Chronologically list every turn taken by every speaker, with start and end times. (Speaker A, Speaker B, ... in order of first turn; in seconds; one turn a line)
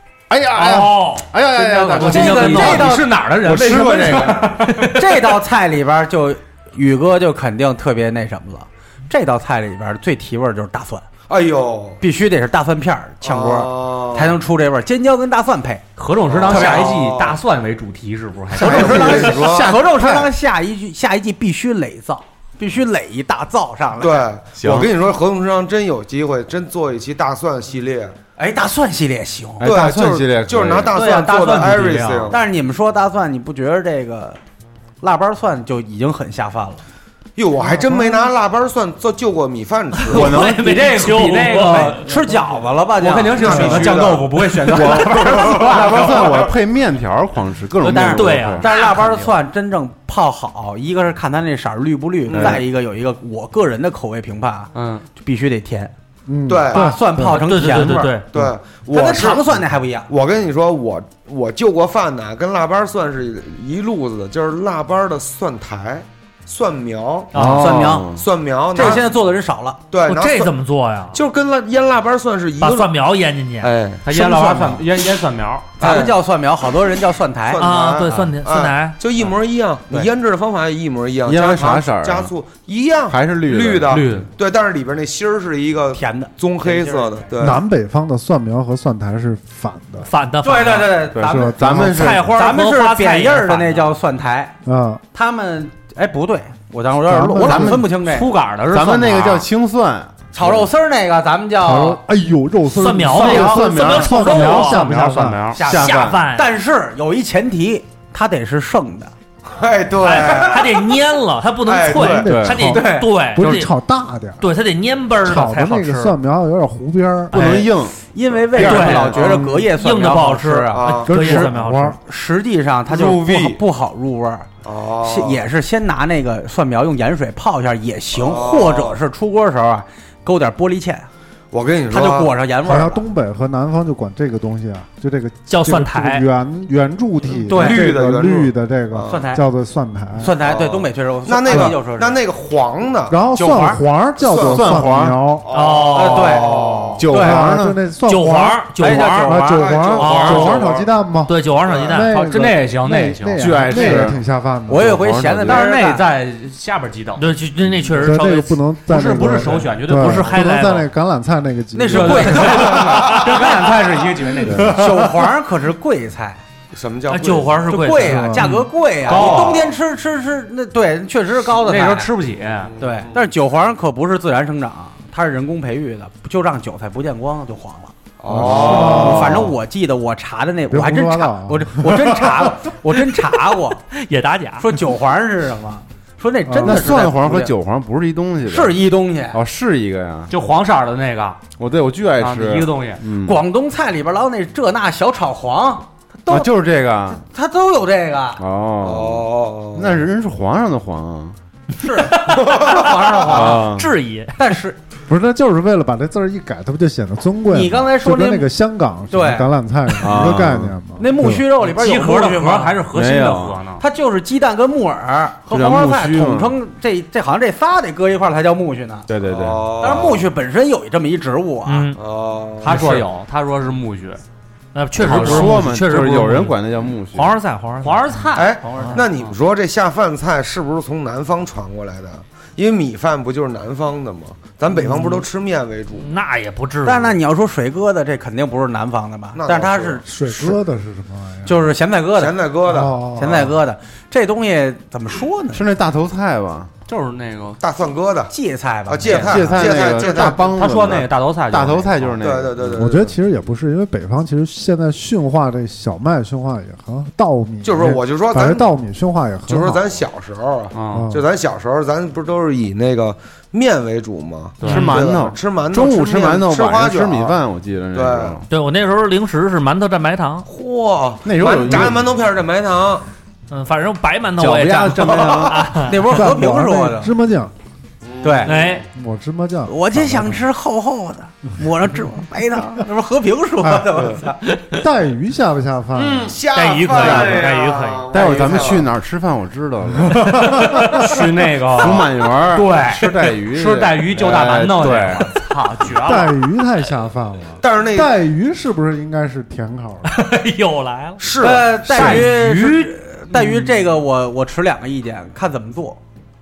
Speaker A: 0.3-4.6
Speaker B: 0.5-1.2
Speaker C: 1.4-3.2
Speaker B: 2.0-2.9
Speaker D: 2.0-5.0
Speaker C: 4.8-11.1
Speaker E: 11.3-12.0
Speaker C: 12.0-15.8
Speaker E: 13.2-14.4
Speaker D: 16.0-19.4
Speaker E: 16.3-17.4
Speaker C: 16.5-16.9
Speaker E: 18.5-19.8
Speaker C: 18.5-24.3
Speaker A: 19.7-20.3
Speaker E: 24.0-28.1
Speaker A: 24.5-24.9
Speaker C: 28.4-29.7
Speaker A: 29.6-30.9
Speaker E: 29.6-32.4
Speaker C: 30.9-34.4
Speaker D: 30.9-32.3
Speaker C: 35.0-36.8
Speaker E: 37.4-40.4
Speaker F: 37.6-38.2
Speaker A: 40.1-40.7
Speaker B: 40.1-42.1
Speaker D: 40.4-42.0
Speaker C: 41.5-44.2
Speaker D: 43.0-46.5
Speaker E: 43.3-46.4
Speaker A: 44.6-48.7
Speaker C: 47.8-55.9
Speaker B: 47.8-48.6
Speaker D: 48.6-49.3
Speaker E: 52.3-52.6
Speaker A: 52.3-52.6
Speaker D: 54.7-55.1
Speaker F: 56.3-57.4
Speaker E: 56.5-56.9
Speaker B: 56.7-58.2
Speaker C: 56.7-58.2
Speaker E: 58.3-67.5
Speaker C: 58.9-60.1
Speaker A: 67.3-68.2
Speaker B: 67.3-67.7
Speaker C: 67.5-68.1
Speaker E: 68.1-69.1
Speaker C: 68.7-69.8
Speaker E: 69.9-70.5
Speaker B: 70.0-71.2
Speaker E: 71.1-73.0
Speaker B: 72.6-73.7
Speaker E: 73.6-74.1
Speaker D: 74.0-76.0
Speaker C: 74.1-74.9
Speaker C: 75.8-77.6
Speaker E: 75.8-76.2
Speaker E: 77.5-87.6
Speaker B: 77.6-79.0
Speaker A: 81.2-82.3
Speaker A: 83.1-84.0
Speaker D: 83.9-84.3
Speaker C: 85.9-87.3
Speaker F: 87.4-90.1
Speaker B: 90.0-91.0
Speaker C: 90.4-91.8
Speaker A: 91.1-92.4
Speaker F: 91.2-92.2
Speaker B: 91.8-93.9
Speaker C: 92.3-94.6
Speaker F: 94.6-95.0
Speaker C: 95.1-98.3
Speaker F: 97.0-97.9
Speaker A: 97.4-97.8
Speaker D: 97.9-99.5
Speaker A: 98.7-100.7
Speaker C: 100.3-102.0
Speaker F: 101.6-105.5
Speaker B: 102.7-104.9
Speaker A: 103.1-104.4
Speaker D: 103.9-105.6
Speaker A: 105.5-106.3
Speaker C: 105.5-109.1
Speaker B: 105.7-106.5
Speaker E: 109.5-110.9
Speaker B: 110.0-113.7
Speaker E: 111.6-112.3
Speaker F: 111.9-114.5
Speaker A: 112.2-112.7
Speaker C: 112.7-113.1
Speaker B: 114.4-116.2
Speaker F: 115.2-117.3
Speaker A: 117.3-119.5
Speaker B: 117.3-117.7
Speaker C: 118.1-124.5
Speaker B: 118.6-119.0
Speaker F: 119.2-119.6
Speaker B: 119.8-122.0
Speaker E: 120.7-121.1
Speaker F: 121.0-122.0
Speaker E: 122.9-123.6
Speaker E: 124.6-125.4
Speaker C: 125.0-131.1
Speaker E: 128.1-129.0
Speaker E: 131.5-132.3
Speaker C: 131.9-133.0
Speaker F: 132.6-140.3
Speaker B: 135.5-136.2
Speaker C: 137.3-137.9
Speaker E: 137.5-139.3
Speaker C: 139.1-139.4
Speaker C: 140.2-142.2
Speaker E: 140.4-143.2
Speaker F: 141.5-141.7
Speaker F: 143.1-145.5
Speaker C: 143.3-143.8
Speaker E: 144.2-144.9
Speaker A: 144.3-145.2
Speaker E: 145.4-147.1
Speaker B: 145.5-146.3
Speaker D: 145.5-146.3
Speaker C: 145.9-147.4
Speaker A: 147.0-147.8
Speaker F: 147.1-155.1
Speaker B: 148.1-149.3
Speaker C: 148.7-150.3
Speaker E: 149.5-150.9
Speaker B: 150.0-150.6
Speaker B: 151.2-152.1
Speaker E: 151.7-152.0
Speaker D: 152.1-154.0
Speaker A: 153.4-154.2
Speaker C: 154.7-156.0
Speaker A: 154.7-155.7
Speaker D: 155.5-157.2
Speaker B: 157.2-158.6
Speaker F: 158.0-162.9
Speaker D: 158.9-160.3
Speaker B: 159.9-160.9
Speaker C: 161.7-166.4
Speaker D: 161.9-164.8
Speaker A: 164.5-164.8
Speaker F: 164.5-165.2
Speaker E: 166.7-167.7
Speaker B: 167.1-168.6
Speaker C: 167.6-172.1
Speaker F: 168.1-168.6
Speaker D: 169.1-169.7
Speaker E: 169.1-169.6
Speaker D: 171.4-172.7
Speaker E: 172.6-173.2
Speaker C: 172.8-183.8
Speaker E: 178.2-179.5
Speaker F: 178.3-179.5
Speaker F: 180.7-182.7
Speaker B: 183.9-184.8
Speaker C: 184.6-187.5
Speaker F: 186.5-187.0
Speaker A: 186.6-190.3
Speaker C: 188.4-189.4
Speaker D: 190.3-191.4
Speaker A: 191.6-193.4
Speaker D: 192.2-193.0
Speaker C: 193.2-196.5
Speaker A: 196.3-197.2
Speaker C: 197.1-198.4
Speaker A: 198.4-201.4
Speaker E: 198.8-200.1
Speaker C: 201.8-203.7
Speaker B: 202.1-202.4
Speaker E: 202.2-203.5
Speaker A: 203.3-203.9
Speaker B: 203.6-204.3
Speaker C: 204.4-204.8
Speaker F: 205.1-211.5
Speaker C: 207.5-208.5
Speaker C: 209.1-209.5
Speaker A: 210.0-210.8
Speaker C: 211.0-212.8
Speaker D: 211.6-213.8
Speaker A: 212.9-213.7
Speaker C: 213.8-219.1
Speaker A: 215.5-216.5
Speaker A: 219.1-219.7
Speaker E: 219.2-220.3
Speaker C: 219.8-221.9
Speaker B: 221.7-222.0
Speaker E: 221.9-223.1
Speaker D: 222.6-224.2
Speaker B: 224.7-226.6
Speaker D: 225.0-225.7
Speaker A: 225.0-227.3
Speaker B: 227.1-229.0
Speaker D: 227.8-229.3
Speaker E: 228.3-236.1
Speaker C: 228.6-229.0
Speaker B: 236.0-237.2
Speaker C: 236.8-240.0
Speaker E: 239.3-240.5
Speaker F: 240.1-241.7
Speaker C: 241.4-242.4
Speaker E: 242.1-243.2
Speaker F: 242.7-243.5
Speaker C: 243.1-245.7
Speaker A: 245.5-246.7
Speaker D: 246.9-247.6
Speaker E: 247.6-248.3
Speaker C: 248.3-249.2
Speaker E: 248.9-250.6
Speaker D: 249.0-249.5
Speaker A: 249.1-252.8
Speaker D: 250.2-252.2
Speaker E: 252.2-253.1
Speaker F: 252.7-259.8
Speaker E: 257.6-258.7
Speaker E: 259.5-267.4
Speaker D: 260.7-261.1
Speaker F: 260.9-261.3
Speaker D: 264.6-265.0
Speaker A: 264.6-268.4
Speaker E: 267.9-268.4
Speaker B: 268.5-270.5
Speaker E: 270.4-273.0
Speaker A: 271.2-272.2
Speaker B: 273.5-276.0
Speaker A: 274.4-275.6
Speaker C: 275.7-277.1
Speaker F: 276.1-277.5
Speaker E: 278.0-278.6
Speaker C: 278.2-278.6
Speaker B: 278.4-278.8
Speaker F: 278.9-280.4
Speaker C: 279.6-284.4
Speaker F: 283.6-284.0
Speaker E: 283.9-284.2
Speaker F: 284.7-286.4
Speaker E: 285.9-288.9
Speaker B: 286.5-288.1
Speaker A: 286.9-287.5
Speaker A: 288.1-290.8
Speaker F: 290.0-291.2
Speaker D: 290.7-296.4
Speaker A: 291.7-295.3
Speaker F: 295.9-300.1
Speaker E: 297.6-298.1
Speaker B: 300.1-301.3
Speaker E: 301.2-302.3
Speaker C: 301.4-306.0
Speaker D: 301.9-302.9
Speaker B: 302.0-302.2